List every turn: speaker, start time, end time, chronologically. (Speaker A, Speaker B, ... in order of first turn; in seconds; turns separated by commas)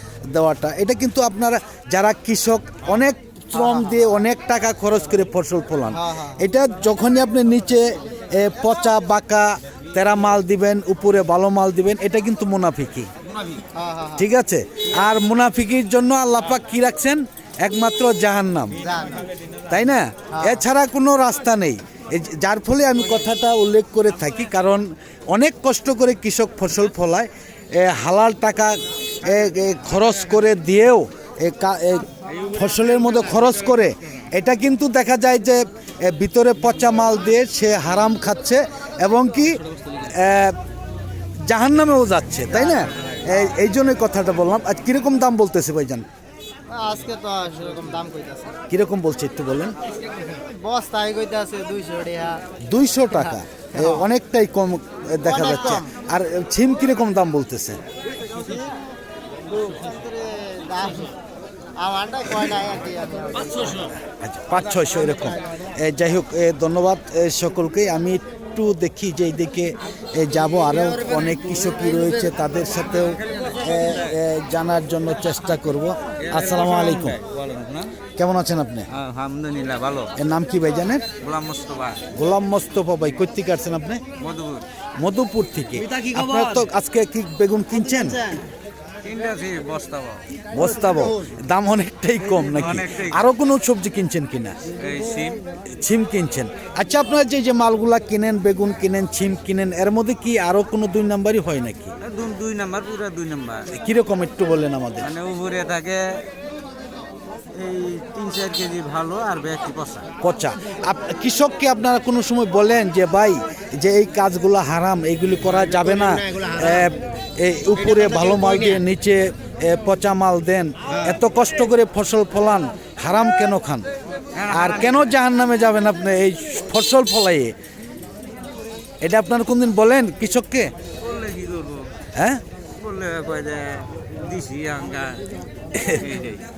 Speaker A: 0.3-13.1, Speaker B: 3.5-4.1, Speaker B: 5.9-6.4, Speaker B: 13.8-14.3, Speaker A: 14.2-18.8, Speaker B: 18.8-19.2, Speaker A: 19.7-40.6, Speaker B: 20.3-20.6, Speaker A: 41.5-46.0, Speaker B: 42.5-42.9, Speaker B: 46.7-48.6, Speaker A: 48.7-49.8, Speaker B: 50.1-52.4, Speaker A: 52.7-57.8, Speaker B: 53.1-54.1, Speaker B: 55.2-55.9, Speaker B: 58.1-58.8, Speaker B: 59.5-61.1, Speaker B: 61.8-63.9, Speaker A: 64.1-77.2, Speaker C: 76.2-77.9, Speaker A: 78.2-78.9, Speaker C: 78.9-80.1, Speaker A: 80.2-81.1, Speaker C: 81.2-82.0, Speaker A: 82.1-84.0, Speaker C: 84.2-84.7, Speaker A: 85.0-88.4, Speaker C: 85.8-86.7, Speaker C: 89.0-90.2, Speaker A: 90.5-94.6, Speaker C: 92.3-93.2, Speaker C: 94.8-95.4, Speaker A: 95.7-101.9, Speaker C: 102.0-103.7, Speaker A: 103.7-105.1, Speaker C: 105.0-106.2, Speaker C: 107.5-110.1, Speaker A: 110.2-123.9, Speaker C: 124.3-125.1, Speaker A: 124.5-127.5, Speaker A: 129.0-130.7, Speaker C: 131.0-131.9, Speaker A: 132.2-132.4, Speaker C: 132.8-135.2, Speaker A: 135.7-136.0, Speaker C: 135.8-136.4